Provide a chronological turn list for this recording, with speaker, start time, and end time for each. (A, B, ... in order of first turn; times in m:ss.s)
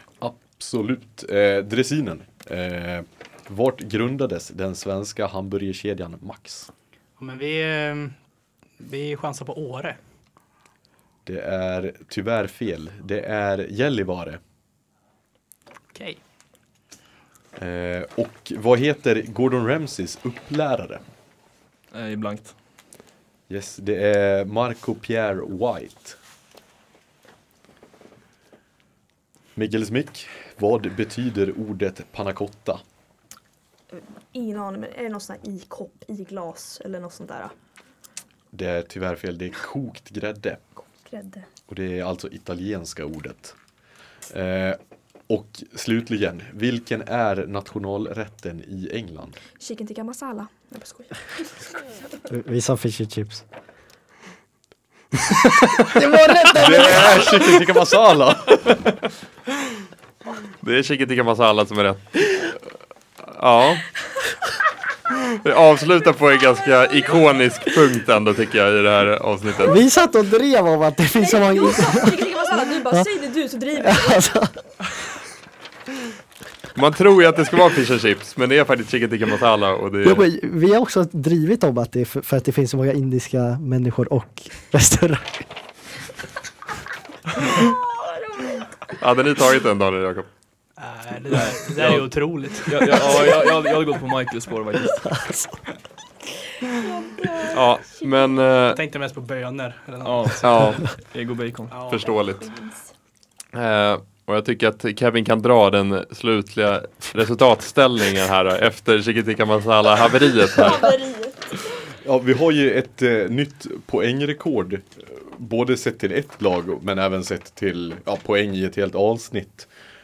0:00.2-0:06.7 A
0:07.2-0:08.2 B
0:08.8-0:10.0 B
0:11.2-0:14.4 A
0:15.9-0:16.2 B
0:17.6-0:21.0 A
0:21.9-0:22.6 C
0:23.5-0:26.2 A
0:29.6-0:32.8 A
0:33.9-0:37.5 D
0:38.5-0:40.6 A
0:40.8-0:41.5 D
0:41.7-0:43.7 A
0:44.3-0:49.4 A
0:49.6-0:52.0 D
0:52.3-0:53.4 E
0:55.9-0:57.4 E
0:56.6-0:58.9 A
0:56.7-0:57.1 D
1:00.6-1:02.1 F
1:03.2-1:04.0 F
1:05.4-1:09.8 F
1:09.6-1:13.2 E
1:11.1-1:14.4 D
1:13.7-1:14.7 E
1:16.7-1:20.3 F
1:20.0-1:25.5 E
1:27.6-1:28.7 D
1:29.0-1:30.3 F
1:30.8-1:33.3 B
1:31.3-1:35.1 C
1:31.8-1:32.0 F
1:33.0-1:33.7 D
1:35.2-1:35.5 E
1:36.8-1:38.6 D
1:37.5-1:38.8 F
1:38.7-1:40.9 B
1:40.0-1:41.8 C
1:40.4-1:40.9 F
1:41.7-1:42.2 B
1:41.9-1:42.5 F
1:41.9-1:42.9 D
1:43.5-1:50.9 F
1:50.5-1:51.9 D
1:52.0-1:59.7 A